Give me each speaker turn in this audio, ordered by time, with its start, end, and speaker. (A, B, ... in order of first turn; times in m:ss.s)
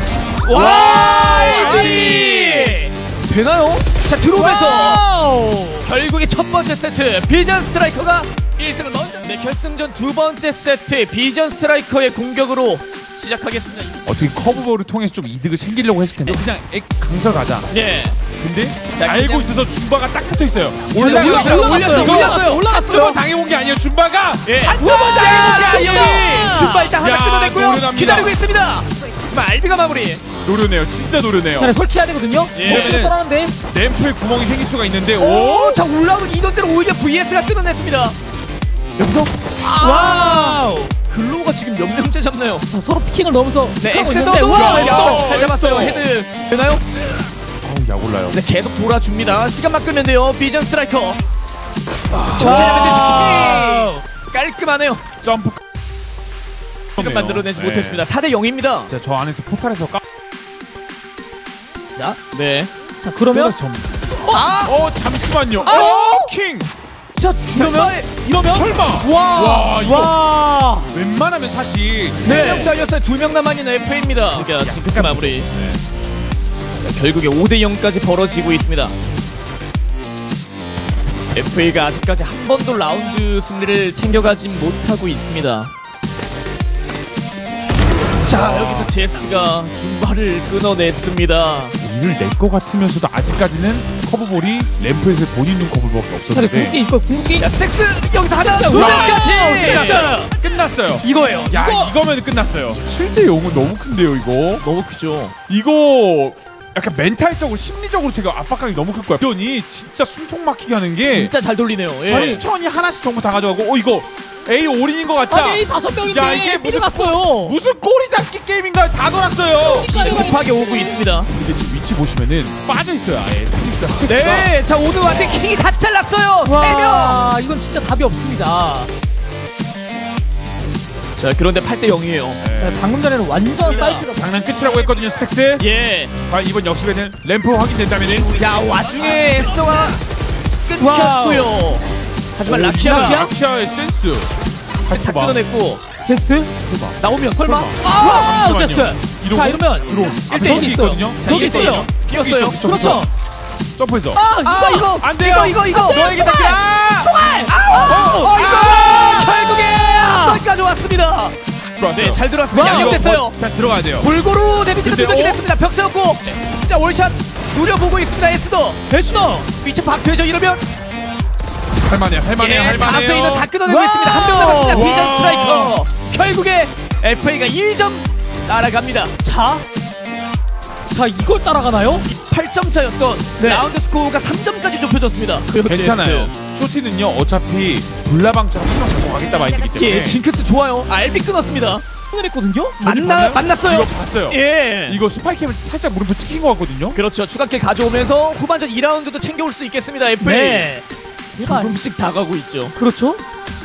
0:00.4-0:05.0 A
0:00.5-0:02.9 B
0:00.5-0:01.8 C
0:04.3-0:05.9 B
0:05.8-0:14.0 A
0:14.0-0:17.7 C
0:17.7-0:18.2 A
0:18.4-0:26.3 C
0:18.9-0:19.5 A
0:21.0-0:23.2 B
0:21.0-0:22.8 A
0:24.4-0:30.2 A
0:24.8-0:26.9 B
0:27.0-0:28.3 C
0:30.4-0:31.8 C
0:31.6-0:33.5 B
0:32.5-0:33.0 A
0:32.6-0:33.2 C
0:33.7-0:35.8 C
0:35.1-0:38.2 A
0:39.0-0:42.7 A
0:39.8-0:40.9 B
0:42.7-0:45.4 B
0:43.8-0:46.8 A
0:44.5-0:46.1 C
0:47.6-0:48.4 C
0:48.3-0:51.2 A
0:52.2-0:55.0 A
0:52.3-0:54.0 B
0:52.4-0:53.2 C
0:55.2-0:55.6 C
0:57.0-0:58.9 A
0:57.0-0:58.0 C
0:58.9-1:00.0 C
1:02.3-1:02.7 A
1:03.0-1:03.5 B
1:03.3-1:03.9 C
1:04.3-1:04.8 A
1:04.6-1:06.7 C
1:05.6-1:06.3 B
1:05.6-1:06.1 A
1:07.2-1:09.8 A
1:07.2-1:08.5 B
1:08.4-1:10.2 C
1:09.8-1:10.9 B
1:10.9-1:12.7 C
1:12.2-1:15.5 A
1:12.2-1:12.7 B
1:14.3-1:15.8 C
1:16.8-1:18.9 A
1:21.3-1:25.7 A
1:28.2-1:31.8 A
1:28.2-1:29.2 C
1:31.8-1:36.8 C
1:36.3-1:37.6 B
1:37.4-1:40.1 A
1:38.4-1:40.3 B
1:38.7-1:44.6 C
1:41.0-1:42.0 B
1:44.6-1:45.3 A
1:45.5-1:51.3 C
1:51.0-1:52.4 A
1:52.0-2:00.4 C
1:52.1-1:52.4 B
1:55.3-1:57.6 B
1:59.6-2:01.1 B
1:59.8-2:01.3 A
2:01.2-2:05.5 C
2:04.1-2:07.2 A
2:06.4-2:08.9 B
2:11.2-2:12.4 A
2:12.4-2:12.9 C
2:12.6-2:14.3 B
2:13.6-2:14.1 A
2:14.1-2:15.6 C
2:15.6-2:16.1 A
2:16.3-2:18.3 C
2:18.1-2:20.0 A
2:18.7-2:19.3 B
2:20.7-2:21.8 A
2:20.8-2:21.5 B
2:22.4-2:23.3 A
2:22.4-2:24.3 C
2:22.8-2:23.3 B
2:24.9-2:25.4 C
2:24.9-2:25.8 A
2:26.0-2:26.5 B
2:26.6-2:33.0 C
2:27.0-2:28.4 A
2:27.4-2:31.9 B
2:30.3-2:32.7 A
2:32.6-2:33.1 B
2:33.8-2:34.2 C
2:34.1-2:34.9 B
2:34.4-2:36.6 A
2:35.0-2:37.1 C
2:35.7-2:40.4 B
2:37.5-2:41.3 A
2:38.3-2:38.9 C
2:41.8-2:44.1 C
2:41.9-2:43.4 A
2:42.5-2:43.1 B
2:44.0-2:50.6 A
2:44.8-2:45.4 C
2:48.9-2:49.5 B
2:51.8-2:53.5 C
2:52.4-2:59.1 A
2:53.6-2:54.9 B
2:54.7-2:55.8 C
2:59.2-2:59.6 B
3:00.9-3:02.1 B
3:02.1-3:06.3 A
3:03.4-3:03.7 B
3:05.6-3:10.2 C
3:09.7-3:11.8 A
3:12.1-3:13.3 B
3:12.8-3:15.0 A
3:12.8-3:17.0 C
3:16.9-3:20.7 A
3:20.2-3:21.7 B
3:21.4-3:22.7 A
3:22.8-3:23.2 B